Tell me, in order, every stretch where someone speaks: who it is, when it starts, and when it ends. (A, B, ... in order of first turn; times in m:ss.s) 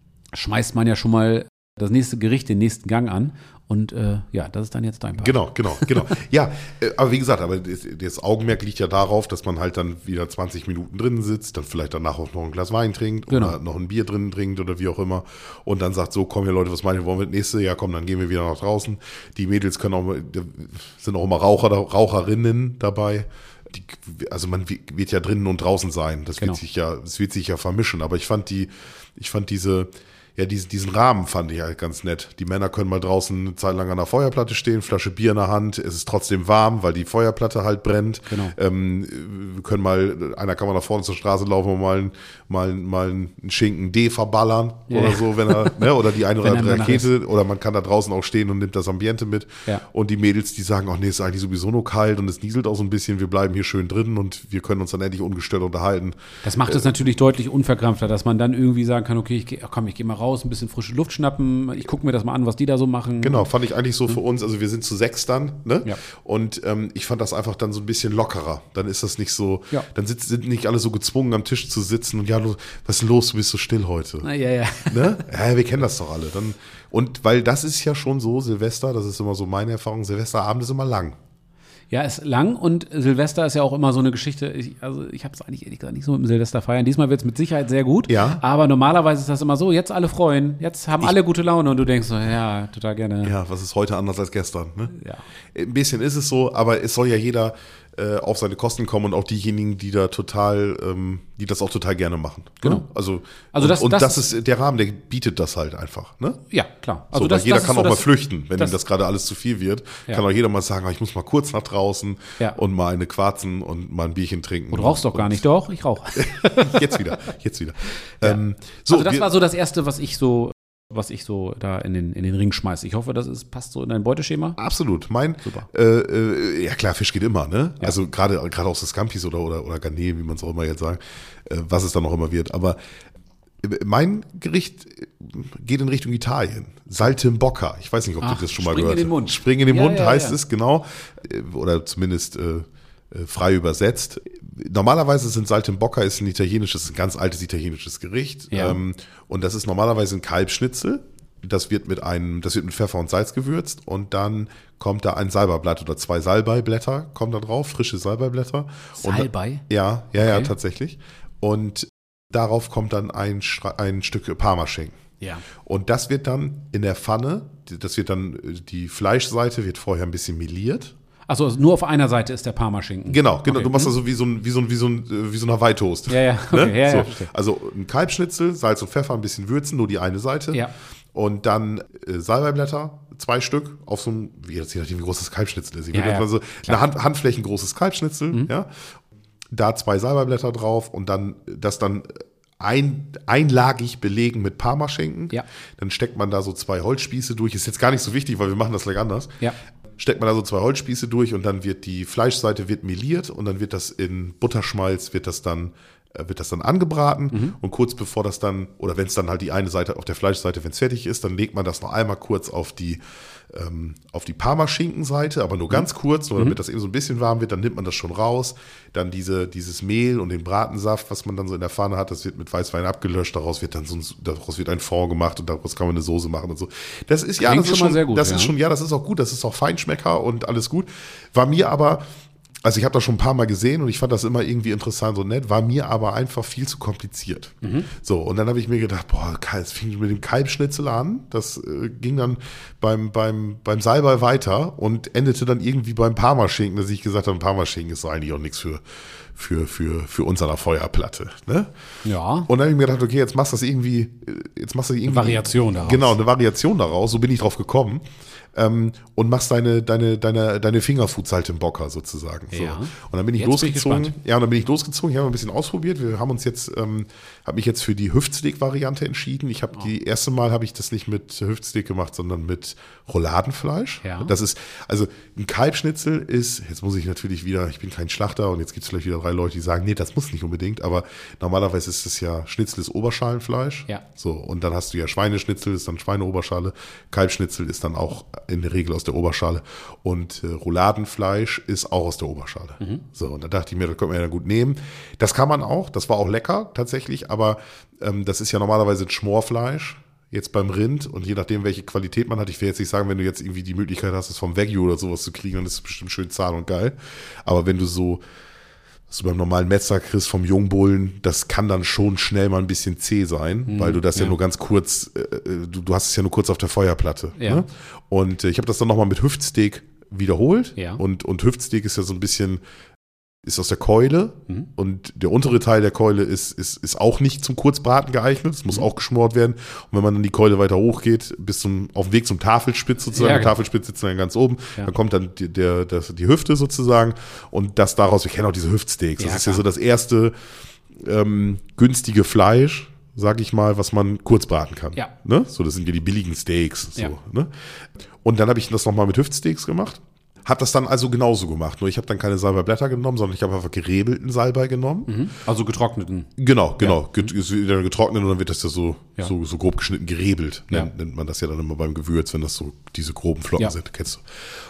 0:00.3-0:06.0 A
0:05.2-0:56.9 B
0:13.3-0:13.6 A
0:38.3-0:38.5 A
0:44.9-0:47.1 A
0:56.4-1:03.5 A
1:03.2-1:14.3 B
1:14.2-1:15.2 A
1:14.8-1:21.2 B
1:21.9-1:33.3 A
1:28.1-1:28.4 B
1:33.2-1:35.0 B
1:34.9-1:35.2 A
1:35.5-1:46.4 B
1:43.5-1:44.2 A
1:46.5-1:48.8 A
1:47.1-1:55.4 B
1:54.7-1:57.1 A
1:56.2-1:59.3 B
1:58.2-2:04.6 A
2:04.6-2:12.8 B
2:13.6-2:45.0 B
2:18.2-2:20.4 A
2:28.5-2:28.8 A
2:39.0-2:39.6 A
2:40.2-2:40.5 A
2:45.6-2:50.9 B
2:51.3-2:53.9 A
2:53.1-3:00.6 B
2:56.1-2:57.3 A
3:01.1-3:08.7 B
3:05.9-3:06.8 A
3:09.5-3:19.4 B
3:20.0-3:52.0 B
3:35.7-3:36.6 A
3:47.4-3:48.5 A
3:52.6-4:08.8 B
3:57.6-3:57.9 A
4:09.3-4:11.7 B
4:12.0-4:12.5 A
4:12.5-4:18.0 B
4:15.0-4:16.2 A
4:18.5-5:08.2 B
4:22.5-4:24.1 A
4:34.0-4:34.3 A
5:09.1-5:22.6 B
5:13.7-5:14.4 A
5:17.4-5:17.6 A
5:23.4-5:40.3 B
5:33.1-5:33.6 A
5:39.2-5:39.6 A
5:41.0-5:47.5 B
5:48.2-5:55.1 B
5:55.1-5:57.3 A
5:56.4-6:04.2 B